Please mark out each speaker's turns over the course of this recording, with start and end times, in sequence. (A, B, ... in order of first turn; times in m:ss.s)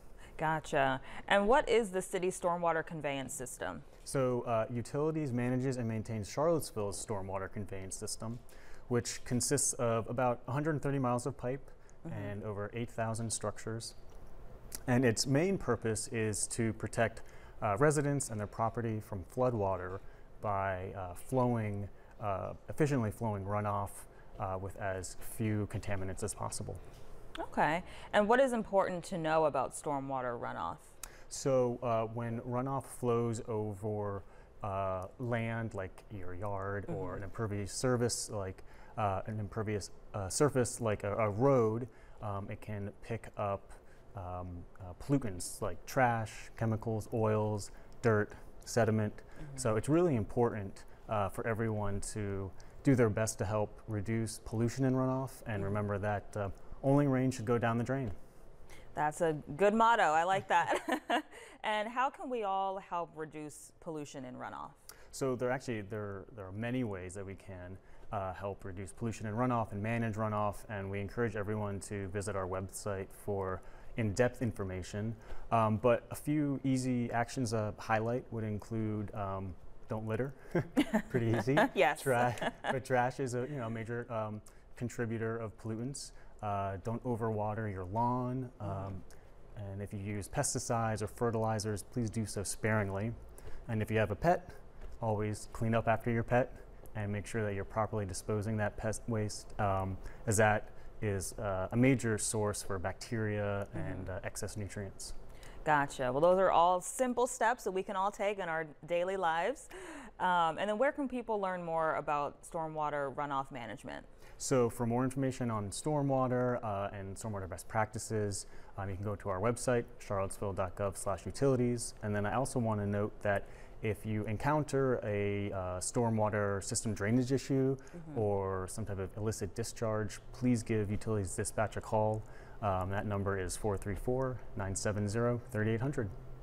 0:00.4-0:03.8 A
0:04.0-0:14.0 B
0:12.0-0:12.3 A
0:14.9-0:26.8 B
0:27.4-0:30.9 A
0:31.3-0:58.2 B
0:59.0-1:04.8 A
1:05.1-1:29.0 B
1:21.6-1:22.7 A
1:28.7-1:28.9 A
1:29.6-1:33.1 B
1:33.7-1:45.2 B
1:43.8-1:44.0 A
1:45.6-1:54.1 A
1:54.4-2:16.1 B